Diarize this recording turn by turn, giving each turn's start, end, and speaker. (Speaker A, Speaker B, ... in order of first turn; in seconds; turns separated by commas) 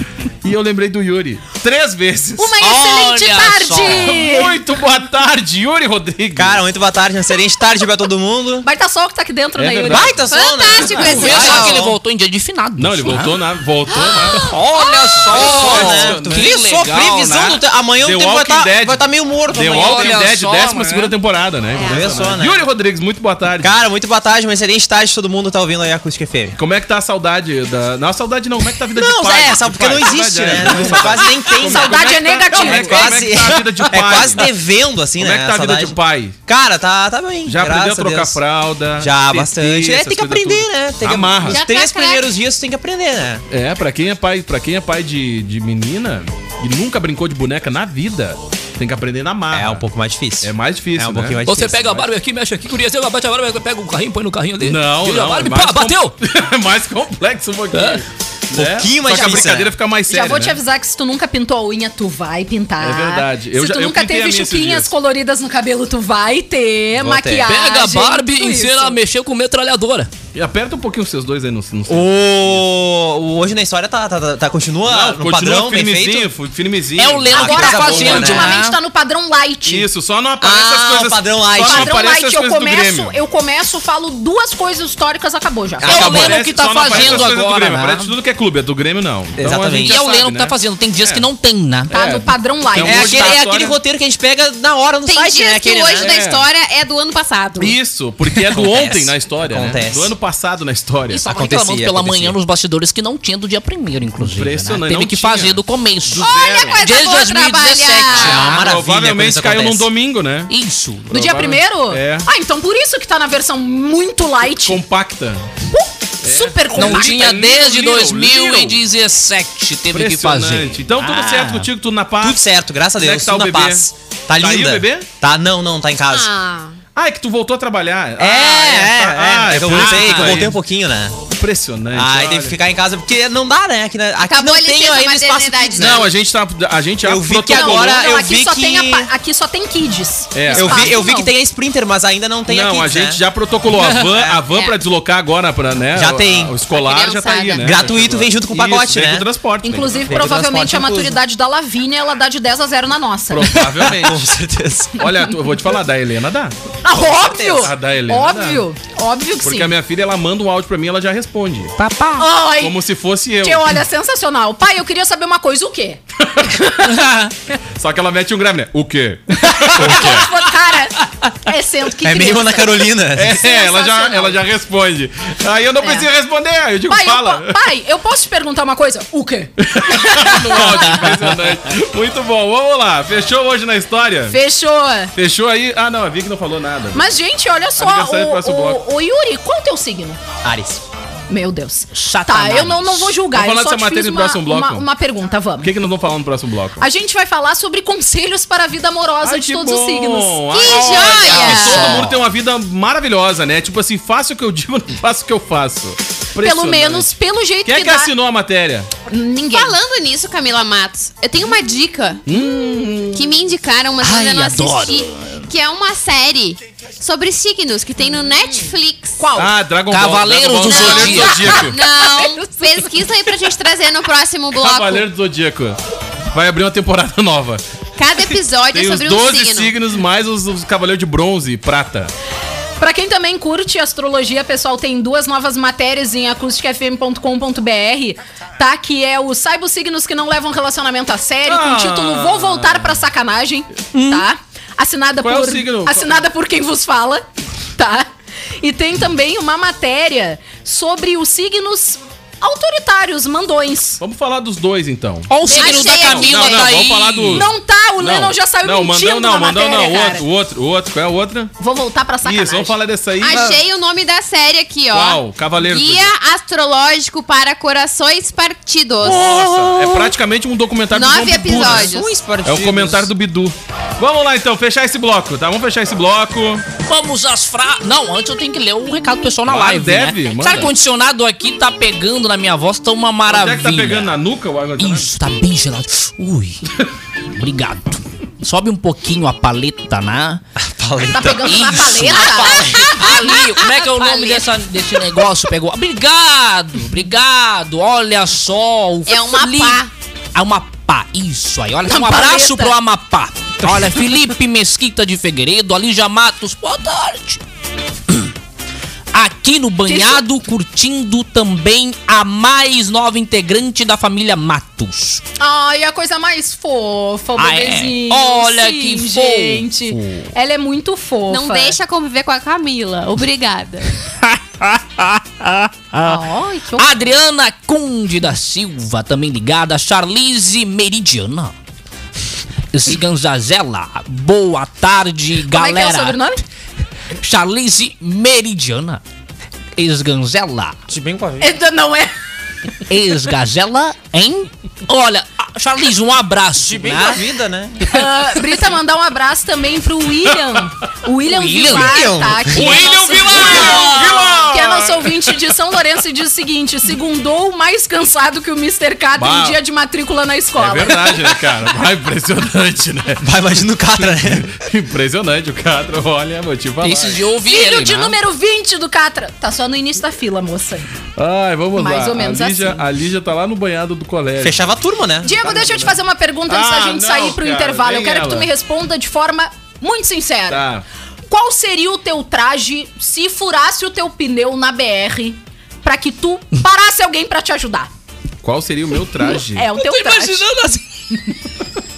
Speaker A: 0.4-2.6, Speaker B: 2.4-4.5, Speaker C: 2.6-4.2, Speaker A: 3.9-6.6, Speaker D: 6.3-8.7, Speaker B: 8.6-10.2, Speaker A: 9.6-10.2, Speaker D: 9.9-11.9, Speaker E: 10.3-11.8, Speaker A: 10.8-11.6, Speaker C: 10.9-13.3, Speaker A: 12.8-14.5, Speaker E: 13.9-15.4, Speaker C: 14.3-17.5, Speaker D: 15.2-20.1, Speaker A: 15.3-16.5, Speaker A: 17.3-23.7, Speaker C: 19.5-21.1, Speaker E: 21.7-22.1, Speaker D: 21.8-22.6, Speaker D: 23.6-26.6, Speaker A: 26.6-34.5, Speaker D: 28.9-36.0, Speaker B: 31.5-33.2, Speaker A: 35.2-36.4, Speaker D: 36.5-38.4, Speaker A: 37.4-41.6, Speaker D: 39.0-43.4, Speaker E: 41.5-42.3, Speaker A: 43.5-49.9, Speaker D: 49.5-52.0, Speaker A: 50.4-51.4, Speaker C: 51.4-56.1, Speaker A: 54.6-60.6, Speaker C: 57.7-58.0, Speaker D: 58.5-59.7, Speaker B: 59.1-59.5, Speaker B: 60.1-69.0, Speaker A: 62.8-64.9, Speaker D: 67.0-67.5, Speaker C: 67.4-70.1, Speaker A: 70.3-72.6, Speaker D: 71.9-76.3, Speaker A: 74.8-78.5, Speaker C: 77.0-78.8, Speaker B: 77.3-79.9, Speaker D: 77.4-78.7, Speaker A: 79.6-83.2, Speaker D: 80.4-81.9, Speaker B: 81.6-86.3, Speaker A: 85.8-91.3, Speaker C: 85.8-88.1, Speaker D: 89.4-90.0, Speaker C: 89.8-91.9, Speaker A: 91.9-93.8, Speaker B: 91.9-93.4, Speaker D: 92.8-96.1, Speaker E: 95.0-97.8, Speaker A: 95.9-96.4, Speaker A: 97.6-101.2, Speaker D: 98.4-100.1, Speaker C: 101.1-108.7, Speaker D: 101.2-102.3, Speaker A: 104.2-106.8, Speaker E: 106.2-108.6, Speaker D: 108.2-109.8, Speaker A: 108.3-110.5, Speaker C: 110.5-111.1, Speaker A: 111.1-112.3, Speaker B: 111.1-114.8, Speaker A: 114.5-115.5, Speaker B: 115.7-117.3, Speaker A: 116.2-118.8, Speaker C: 116.7-121.7, Speaker A: 119.9-122.4, Speaker D: 122.2-126.3, Speaker A: 122.9-125.1, Speaker E: 126.1-126.8, Speaker A: 126.9-130.6, Speaker D: 128.2-131.2, Speaker A: 131.3-132.6, Speaker D: 131.9-136.0, Speaker E: 134.2-136.1, Speaker A: 135.8-138.0, Speaker D: 137.0-139.1, Speaker B: 137.5-141.3, Speaker A: 140.3-140.9, Speaker D: 140.5-143.2, Speaker A: 142.5-150.2, Speaker D: 143.9-144.4, Speaker D: 145.9-146.6, Speaker E: 146.7-147.9, Speaker D: 147.6-149.3, Speaker B: 149.6-153.6, Speaker D: 150.1-151.2, Speaker A: 153.3-154.3, Speaker D: 153.7-155.0, Speaker A: 155.0-156.6, Speaker B: 156.8-159.7, Speaker D: 156.9-157.7, Speaker A: 157.5-158.7, Speaker A: 159.4-161.8, Speaker C: 161.8-162.3, Speaker B: 162.2-162.8, Speaker A: 162.6-163.8, Speaker B: 163.4-166.9, Speaker A: 166.2-166.6, Speaker C: 167.0-167.3, Speaker A: 167.8-170.3, Speaker B: 169.6-174.4, Speaker D: 172.0-173.3, Speaker A: 173.1-177.6, Speaker B: 175.8-176.1, Speaker B: 176.9-181.0, Speaker A: 179.6-184.4, Speaker B: 184.3-185.1, Speaker A: 185.1-187.1, Speaker B: 186.9-190.2, Speaker A: 187.8-188.8, Speaker D: 190.4-190.8, Speaker B: 191.3-195.7, Speaker C: 191.9-193.2, Speaker A: 193.3-194.9, Speaker A: 195.6-196.8, Speaker B: 196.8-200.4, Speaker A: 199.2-207.1, Speaker E: 200.5-202.1, Speaker C: 200.7-202.2, Speaker B: 206.4-208.1, Speaker A: 207.6-208.9, Speaker B: 209.1-209.8, Speaker E: 209.5-212.2, Speaker A: 212.2-213.2, Speaker B: 212.3-213.0, Speaker E: 213.1-219.2, Speaker C: 214.0-215.5, Speaker B: 219.2-219.5, Speaker A: 219.3-221.8, Speaker C: 219.9-221.7, Speaker E: 220.7-225.1, Speaker B: 221.4-222.9, Speaker A: 224.5-225.8, Speaker A: 226.3-227.6, Speaker E: 228.0-229.7, Speaker A: 228.7-232.1, Speaker B: 232.8-247.2, Speaker A: 241.4-243.0, Speaker C: 243.9-244.2, Speaker A: 245.2-246.2, Speaker B: 247.8-248.1, Speaker B: 248.6-254.0, Speaker A: 254.0-255.3, Speaker C: 255.3-257.5, Speaker E: 255.4-256.9, Speaker B: 255.5-255.8, Speaker A: 255.8-261.5, Speaker B: 257.3-260.2, Speaker B: 261.6-262.8, Speaker A: 262.2-263.6, Speaker E: 263.2-269.3, Speaker A: 264.9-266.1, Speaker A: 269.0-276.6, Speaker E: 270.9-272.1, Speaker D: 271.6-273.1, Speaker C: 276.9-284.1, Speaker A: 279.4-280.7, Speaker A: 283.3-285.1, Speaker C: 284.8-286.6, Speaker C: 287.3-290.4, Speaker D: 290.6-292.1, Speaker B: 291.1-293.1, Speaker C: 291.2-299.8, Speaker E: 292.2-294.4, Speaker E: 299.1-299.9, Speaker C: 300.3-307.4, Speaker B: 301.9-302.7, Speaker C: 309.1-315.2, Speaker B: 309.9-310.2, Speaker B: 315.4-321.8, Speaker C: 317.4-320.3, Speaker E: 321.3-324.0, Speaker C: 324.2-326.2, Speaker B: 326.0-327.2, Speaker C: 326.8-331.5, Speaker C: 332.7-336.3, Speaker B: 335.5-336.4, Speaker C: 337.2-339.0, Speaker C: 339.8-340.8, Speaker D: 340.9-341.5, Speaker B: 341.4-342.1, Speaker C: 342.9-347.3, Speaker D: 346.6-347.8, Speaker B: 347.8-361.2, Speaker C: 351.2-354.3, Speaker D: 351.7-352.8, Speaker A: 352.6-355.4, Speaker A: 359.1-359.6, Speaker A: 360.6-363.4, Speaker D: 363.2-364.5, Speaker A: 363.9-367.2, Speaker C: 366.8-368.2, Speaker B: 367.5-370.9, Speaker A: 371.1-374.7, Speaker B: 371.8-372.8, Speaker D: 374.4-375.8, Speaker B: 375.2-380.6, Speaker A: 376.5-378.5, Speaker A: 380.5-380.8, Speaker B: 381.3-387.9, Speaker A: 388.4-389.7, Speaker B: 389.4-390.4, Speaker C: 389.7-390.8